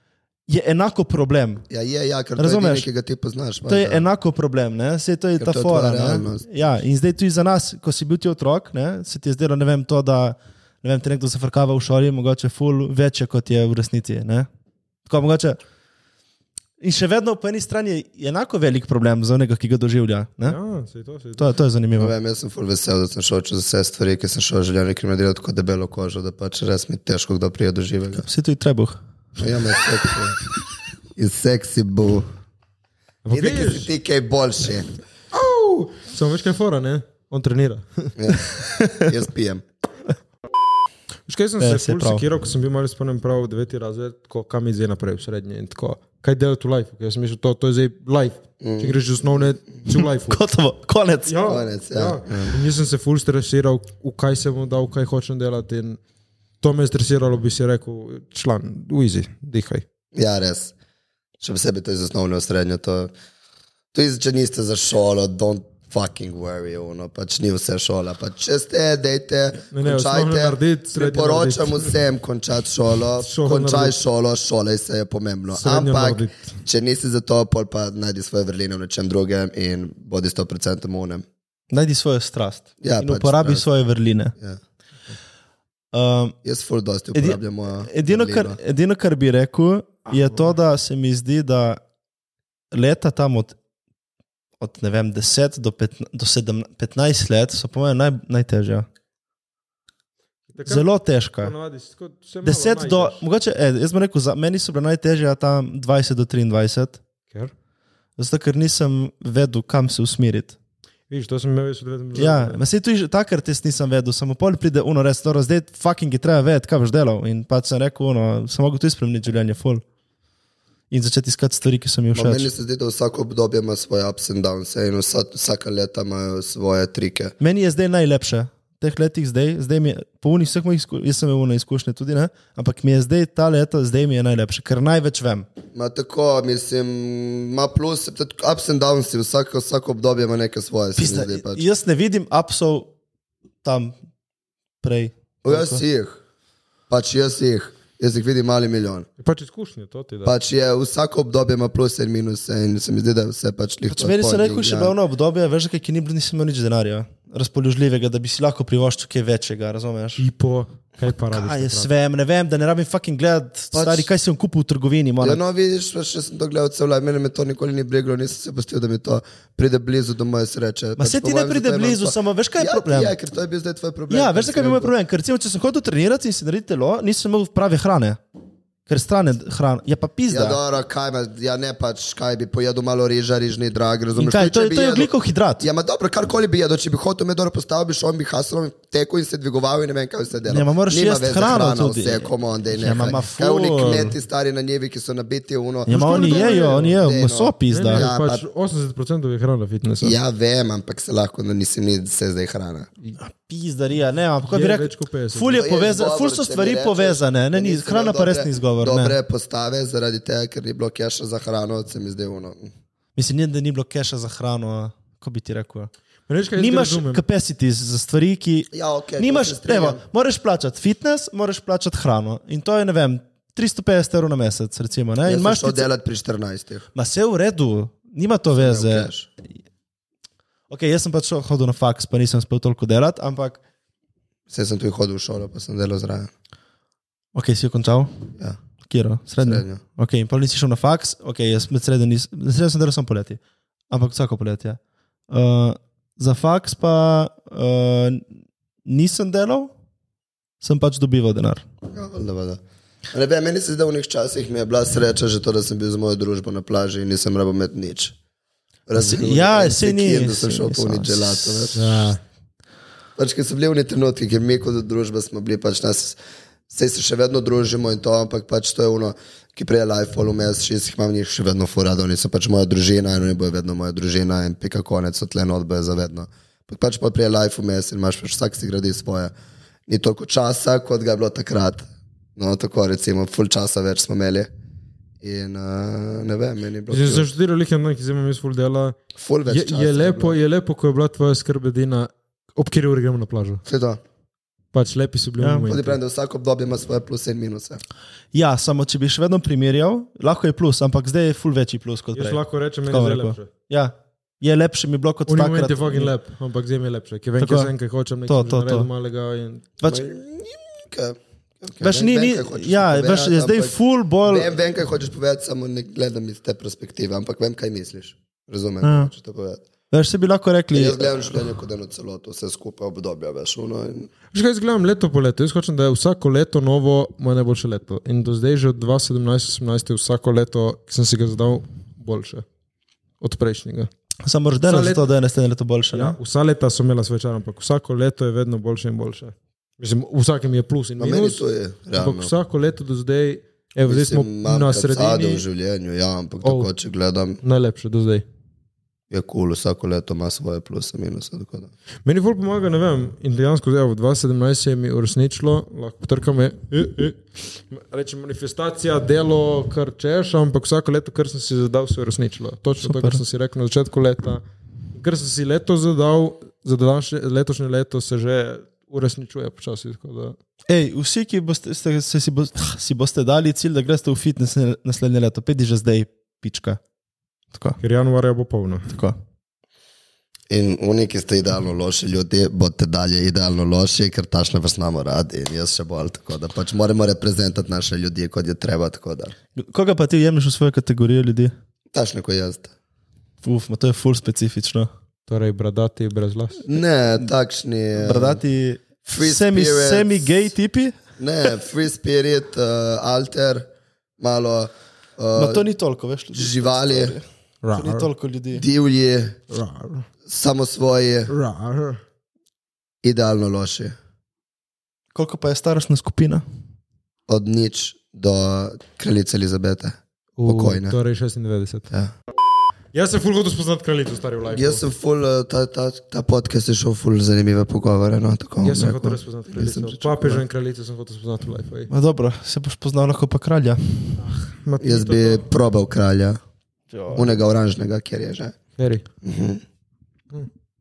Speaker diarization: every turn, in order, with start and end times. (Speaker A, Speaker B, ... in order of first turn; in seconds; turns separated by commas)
Speaker A: 0.5-1.6, Speaker B: 1.7-4.1, Speaker A: 2.4-2.9, Speaker A: 3.7-14.5, Speaker B: 5.4-6.5, Speaker A: 15.1-15.6, Speaker A: 16.8-20.6, Speaker C: 20.4-21.5, Speaker A: 21.4-22.1, Speaker B: 22.0-28.2, Speaker A: 28.2-29.0, Speaker B: 29.4-30.4, Speaker B: 31.1-32.3, Speaker C: 33.2-33.9, Speaker B: 33.3-34.9, Speaker C: 35.3-38.1, Speaker B: 38.2-39.6, Speaker A: 38.8-39.1, Speaker C: 41.3-50.4, Speaker A: 41.6-42.2, Speaker B: 48.6-49.0, Speaker A: 50.3-51.4, Speaker C: 51.2-56.0, Speaker B: 51.5-52.5, Speaker C: 56.6-59.8, Speaker B: 60.1-60.7, Speaker B: 61.4-63.1, Speaker B: 63.9-81.2, Speaker C: 69.7-71.9, Speaker C: 73.2-74.0, Speaker C: 75.5-76.5, Speaker A: 81.7-84.3, Speaker B: 82.8-83.6, Speaker A: 85.9-86.3, Speaker B: 86.4-88.6, Speaker A: 87.1-91.8, Speaker A: 92.7-93.5, Speaker A: 94.6-98.9, Speaker C: 100.5-100.9, Speaker A: 100.7-101.5, Speaker C: 101.4-103.2, Speaker A: 102.4-107.0, Speaker A: 108.2-110.5, Speaker C: 111.1-112.6, Speaker A: 112.1-119.8, Speaker A: 120.9-122.5, Speaker B: 122.1-127.3, Speaker A: 127.4-135.5, Speaker B: 135.7-141.6, Speaker A: 140.9-142.9, Speaker A: 143.6-143.9, Speaker A: 144.8-145.8, Speaker B: 145.4-146.2, Speaker B: 146.9-149.1, Speaker C: 149.2-150.3, Speaker B: 150.2-154.9, Speaker A: 153.9-160.2, Speaker C: 160.2-161.9, Speaker A: 161.3-165.4, Speaker B: 163.7-164.1, Speaker B: 165.2-174.9, Speaker A: 171.0-173.1, Speaker A: 174.1-178.2, Speaker A: 178.9-180.6, Speaker B: 180.3-198.4, Speaker A: 184.2-185.7, Speaker A: 190.5-194.1, Speaker A: 195.9-198.1, Speaker C: 195.9-196.9, Speaker C: 197.7-200.2, Speaker B: 200.0-202.9, Speaker A: 203.2-209.2, Speaker C: 204.4-205.6, Speaker B: 205.6-212.7, Speaker A: 213.2-215.9, Speaker C: 216.3-217.2, Speaker A: 216.6-225.9, Speaker B: 218.7-220.0, Speaker B: 225.2-226.9, Speaker A: 226.9-229.1, Speaker B: 228.5-229.3, Speaker A: 230.7-233.6, Speaker B: 234.5-236.3, Speaker A: 237.3-238.3, Speaker A: 238.8-244.8, Speaker B: 239.4-239.8, Speaker A: 245.3-248.3, Speaker A: 248.8-249.7, Speaker A: 250.6-251.7, Speaker B: 251.9-252.6, Speaker B: 253.1-258.1, Speaker B: 258.9-261.9, Speaker A: 258.9-262.0, Speaker C: 261.7-262.2, Speaker B: 263.2-266.2, Speaker B: 266.7-279.3, Speaker B: 279.9-281.9, Speaker B: 282.4-284.5, Speaker B: 285.2-287.3, Speaker C: 286.9-288.9, Speaker B: 289.1-290.4, Speaker C: 289.5-293.6, Speaker B: 293.6-294.0, Speaker C: 294.7-296.0, Speaker A: 295.4-295.6, Speaker B: 295.7-297.8, Speaker A: 298.3-306.1, Speaker C: 302.1-303.5, Speaker C: 305.3-309.8, Speaker A: 307.4-307.7, Speaker A: 308.3-308.9, Speaker B: 309.8-319.6, Speaker A: 311.8-314.5, Speaker A: 318.8-319.1, Speaker A: 319.9-321.4, Speaker B: 320.7-324.1, Speaker C: 324.3-332.4, Speaker C: 333.2-333.9, Speaker A: 334.2-336.2, Speaker C: 334.6-335.1, Speaker C: 335.9-341.4, Speaker B: 341.0-342.3, Speaker C: 341.9-345.4, Speaker B: 343.9-347.4, Speaker C: 346.4-346.7, Speaker C: 347.4-348.2, Speaker B: 349.1-351.7, Speaker C: 352.0-364.4, Speaker A: 362.8-363.2, Speaker C: 364.9-370.4, Speaker A: 370.7-376.8, Speaker A: 377.5-377.8, Speaker C: 377.8-378.9, Speaker A: 378.9-379.1, Speaker B: 380.5-389.3, Speaker A: 389.5-391.5, Speaker B: 391.9-392.7, Speaker A: 393.4-394.9, Speaker C: 395.3-396.6, Speaker B: 396.6-398.4, Speaker A: 397.9-401.0, Speaker B: 399.1-400.3, Speaker B: 401.2-403.6, Speaker B: 404.2-405.6, Speaker A: 405.4-408.6, Speaker B: 406.3-407.2, Speaker C: 407.6-408.1, Speaker B: 408.5-409.4, Speaker C: 409.5-410.1, Speaker B: 410.2-411.3, Speaker C: 411.3-412.0, Speaker B: 413.0-413.9, Speaker A: 415.1-416.4, Speaker B: 417.3-420.9, Speaker C: 420.4-421.9, Speaker C: 422.9-424.8, Speaker B: 424.5-430.4, Speaker C: 428.6-431.9, Speaker A: 431.9-434.2, Speaker C: 434.2-435.5, Speaker B: 434.8-436.4, Speaker A: 436.9-437.4, Speaker B: 437.1-438.5, Speaker C: 438.8-439.0, Speaker B: 439.2-439.6